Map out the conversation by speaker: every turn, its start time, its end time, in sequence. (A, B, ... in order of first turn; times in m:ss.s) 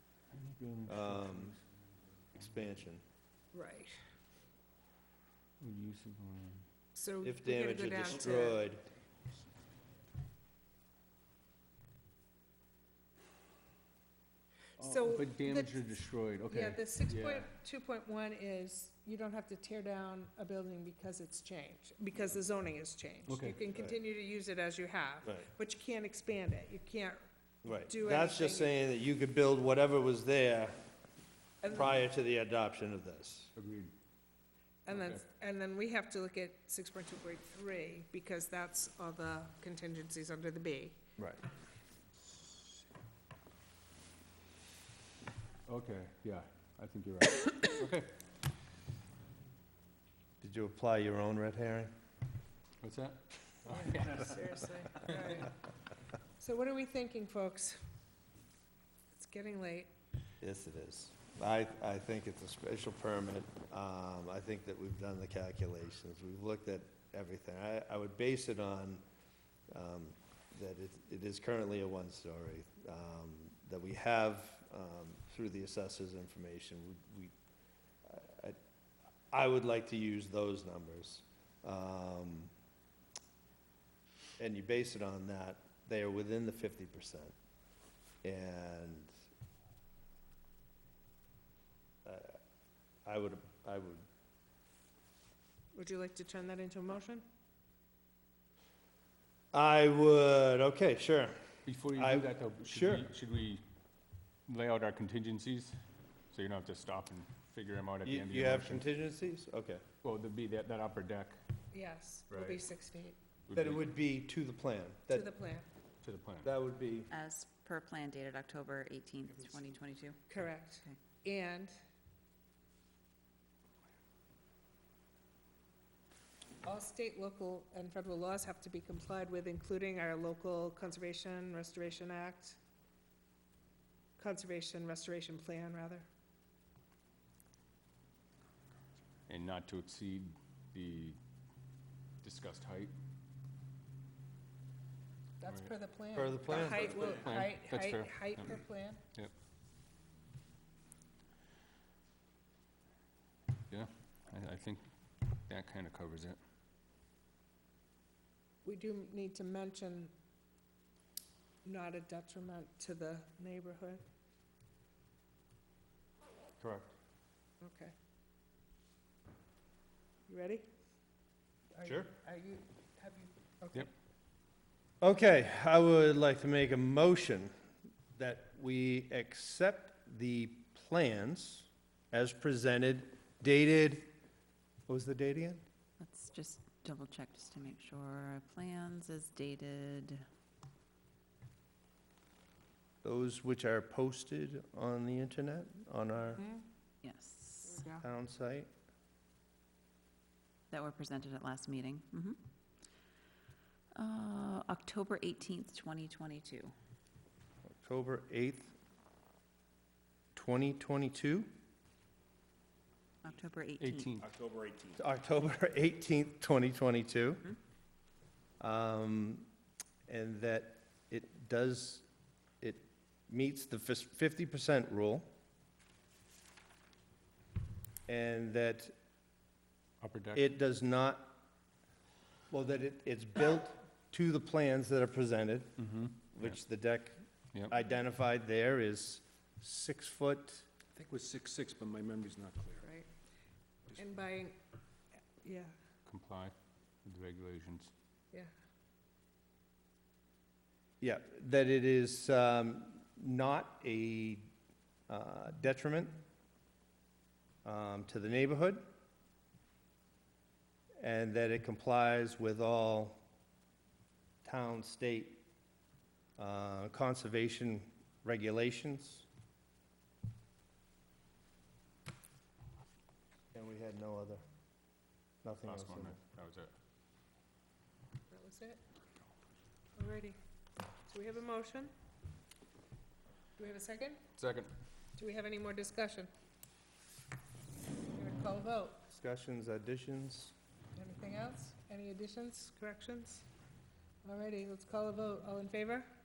0:00.3-0:01.6 A
0:00.9-0:01.6 B
0:02.4-0:03.0 B
0:03.5-0:04.0 C
0:05.6-0:06.6 A
0:07.0-0:08.6 C
0:07.2-0:08.8 B
0:14.8-0:16.0 C
0:14.8-0:17.5 A
0:16.5-0:27.2 C
0:23.3-0:23.6 A
0:27.6-0:30.8 B
0:27.8-0:28.8 C
0:31.6-0:32.0 C
0:31.7-0:33.5 B
0:33.6-0:33.9 A
0:34.9-0:41.0 C
0:34.9-0:35.2 A
0:45.7-0:48.1 A
0:50.4-0:51.9 B
0:52.8-0:54.4 A
0:53.7-0:55.5 C
0:56.4-0:57.8 C
0:59.1-0:59.9 C
1:00.4-1:09.0 B
1:09.7-1:17.3 B
1:18.0-1:18.6 B
1:19.3-1:22.5 B
1:24.4-1:27.3 B
1:28.2-1:29.1 B
1:32.0-1:32.4 B
1:33.0-1:34.1 B
1:35.8-1:37.2 C
1:39.5-1:41.4 B
1:41.7-1:43.6 A
1:41.9-1:43.1 B
1:44.5-1:45.8 A
1:46.3-1:48.9 A
1:48.0-1:49.8 B
1:50.0-1:51.4 A
1:51.7-1:53.2 C
1:52.3-1:52.6 A
1:53.5-1:53.9 A
1:53.5-1:55.3 B
1:55.1-1:55.7 C
1:56.0-1:56.5 A
1:56.4-1:57.1 B
1:57.1-2:00.2 D
2:00.3-2:01.7 C
2:06.6-2:12.6 C
2:14.2-2:16.1 C
2:19.3-2:21.2 A
2:22.2-2:22.9 A
2:25.4-2:29.0 C
2:25.5-2:25.7 A
2:26.2-2:27.1 B
2:27.1-2:28.6 A
2:33.7-2:34.8 A
2:35.5-2:36.4 A
2:38.6-2:40.1 C
2:41.6-2:44.0 C
2:46.6-2:47.0 B
2:47.6-2:48.0 C
2:50.3-2:50.7 C
2:51.8-2:53.9 C
2:51.8-2:52.1 B
2:55.0-2:57.5 B
2:58.1-3:04.1 B
3:04.9-3:05.6 B
3:06.0-3:10.2 D
3:13.0-3:16.4 B
3:16.4-3:16.6 C
3:17.0-3:17.8 D
3:17.7-3:18.0 C
3:18.0-3:18.7 B
3:20.7-3:22.4 D
3:24.0-3:26.7 D
3:27.8-3:28.7 B
3:30.3-3:31.5 B
3:33.2-3:34.1 D
3:33.8-3:34.3 A
3:34.2-3:35.0 E
3:35.0-3:37.5 B
3:38.6-3:39.5 B
3:40.1-3:42.1 B
3:42.6-3:45.3 B
3:48.1-3:48.9 B
3:50.0-3:50.5 A
3:50.4-3:51.4 B
3:52.5-3:55.8 B
3:55.8-3:56.6 A
3:56.3-4:00.7 B
4:01.0-4:02.8 E
4:02.8-4:03.1 C
4:03.9-4:04.6 C
4:05.4-4:05.7 C
4:06.1-4:06.5 A
4:07.0-4:07.9 A
4:11.0-4:14.5 B
4:15.1-4:16.2 B
4:17.6-4:18.8 B
4:21.0-4:23.2 B
4:24.4-4:25.4 B
4:26.4-4:29.3 B
4:33.5-4:34.4 B
4:35.4-4:36.2 B
4:35.6-4:36.7 A
4:38.3-4:38.8 C
4:40.0-4:40.4 C
4:41.1-4:41.9 C
4:43.6-4:44.2 C
4:44.4-4:44.7 A
4:45.2-4:46.3 C
4:48.1-4:49.0 C
4:49.1-4:50.5 B
4:51.0-4:53.4 C
4:54.2-4:56.1 C